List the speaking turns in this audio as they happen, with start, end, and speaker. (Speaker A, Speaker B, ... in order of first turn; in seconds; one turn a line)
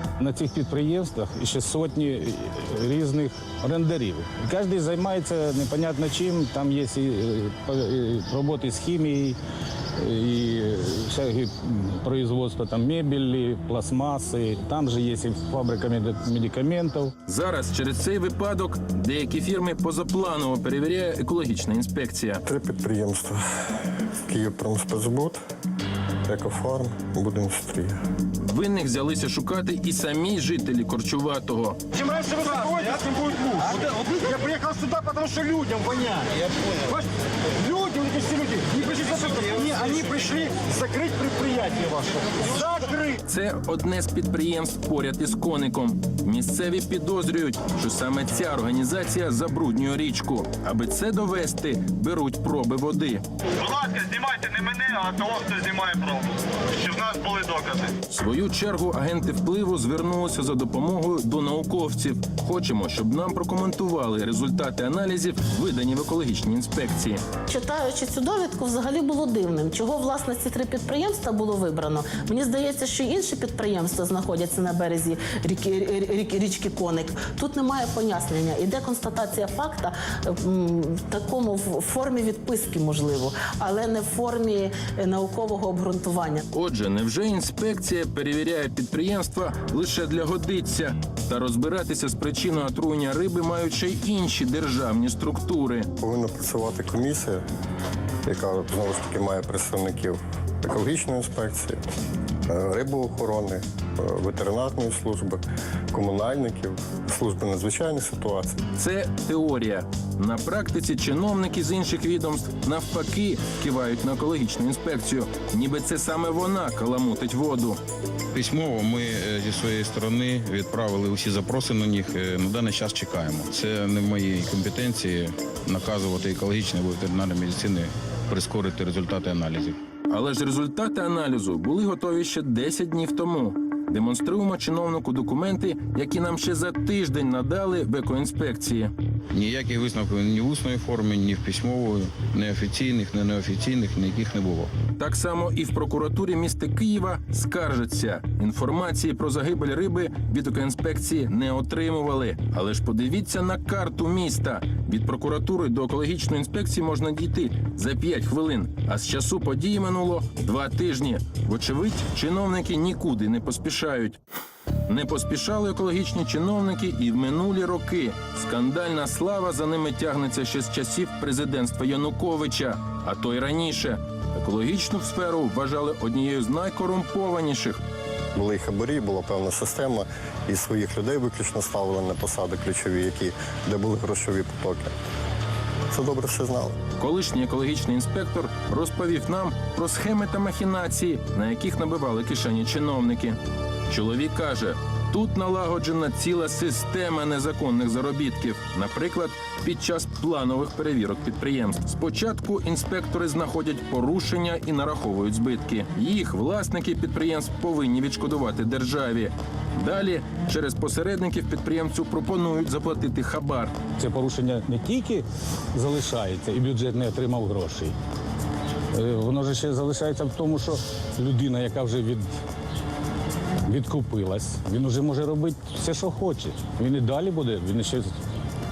Speaker A: 0.2-9.4
Speaker A: 10.0-17.1
Speaker B: 17.3-22.4
Speaker C: 22.4-23.4
Speaker C: 24.3-25.4
Speaker C: 26.3-28.0
Speaker B: 28.5-31.8
Speaker D: 31.9-37.0
Speaker D: 37.6-43.2
Speaker B: 43.2-53.2
Speaker E: 53.7-56.3
Speaker E: 56.9-57.9
Speaker B: 58.1-67.2
Speaker F: 67.5-86.5
Speaker B: 86.5-95.9
Speaker C: 96.0-97.4
Speaker C: 98.2-101.8
Speaker C: 102.5-108.6
Speaker B: 108.8-117.8
Speaker G: 118.3-129.8
Speaker B: 130.1-138.9
Speaker G: 139.3-144.7
Speaker B: 145.0-164.2
Speaker B: 164.9-177.8
Speaker C: 178.3-184.9
Speaker C: 185.9-186.8
Speaker B: 187.0-193.4
Speaker B: 193.9-213.8
Speaker A: 214.0-217.9
Speaker A: 218.9-222.3
Speaker A: 223.7-228.1